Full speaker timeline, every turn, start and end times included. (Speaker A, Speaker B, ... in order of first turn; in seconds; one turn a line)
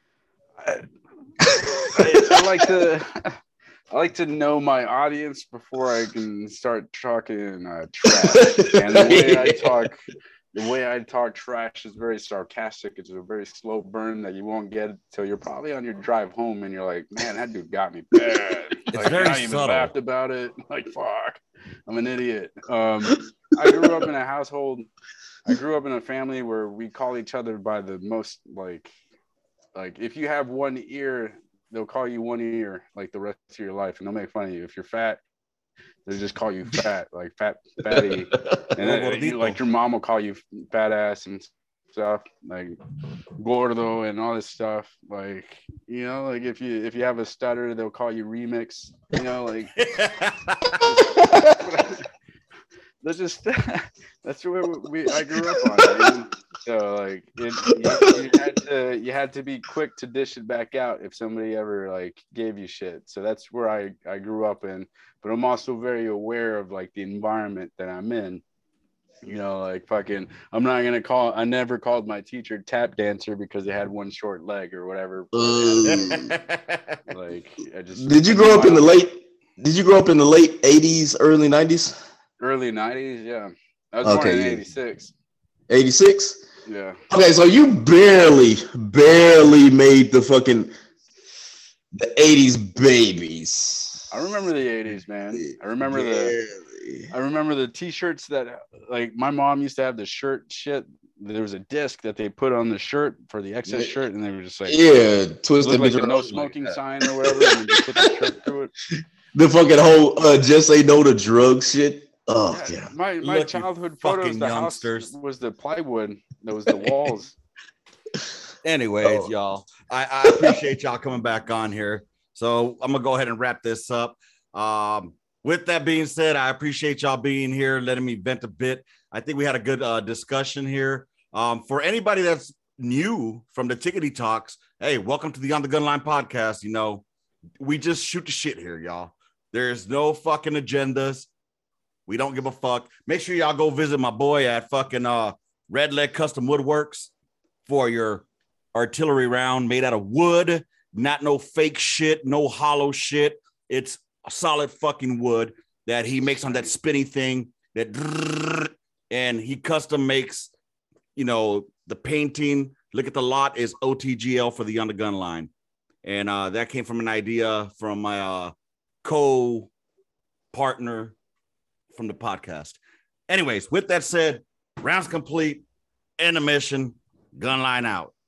Speaker A: 0.6-0.9
Speaker B: 1.4-2.3
Speaker A: 1.9-3.4
Speaker A: 3.9-10.0
Speaker B: 8.1-9.8
Speaker A: 10.5-24.9
Speaker C: 18.9-19.9
Speaker A: 25.4-28.9
Speaker A: 29.7-35.2
Speaker A: 36.0-42.8
Speaker B: 37.9-38.6
Speaker C: 38.8-39.6
Speaker A: 43.4-49.7
Speaker C: 49.8-50.8
Speaker A: 50.7-52.1
Speaker B: 51.2-51.5
Speaker A: 53.0-68.4
Speaker B: 55.1-56.1
Speaker B: 57.7-58.3
Speaker A: 69.2-76.2
Speaker B: 75.3-76.3
Speaker C: 75.9-77.0
Speaker A: 77.1-79.0
Speaker B: 78.0-82.0
Speaker A: 82.4-85.1
Speaker B: 84.0-84.6
Speaker B: 85.7-86.4
Speaker A: 86.7-87.0
Speaker B: 87.1-90.7
Speaker B: 91.9-94.1
Speaker A: 94.1-96.3
Speaker B: 95.4-97.1
Speaker A: 97.1-104.8
Speaker B: 104.7-108.3
Speaker A: 105.6-108.7
Speaker B: 108.9-112.9
Speaker A: 112.5-117.3
Speaker C: 113.2-115.1
Speaker C: 118.6-137.0
Speaker B: 119.0-119.3
Speaker B: 120.3-120.5
Speaker C: 137.6-141.3
Speaker C: 142.1-147.1
Speaker C: 147.7-160.5
Speaker C: 161.2-165.5
Speaker C: 166.0-168.5
Speaker C: 169.0-169.7
Speaker C: 170.5-171.2
Speaker C: 171.9-172.8
Speaker C: 173.3-175.6
Speaker C: 176.2-178.1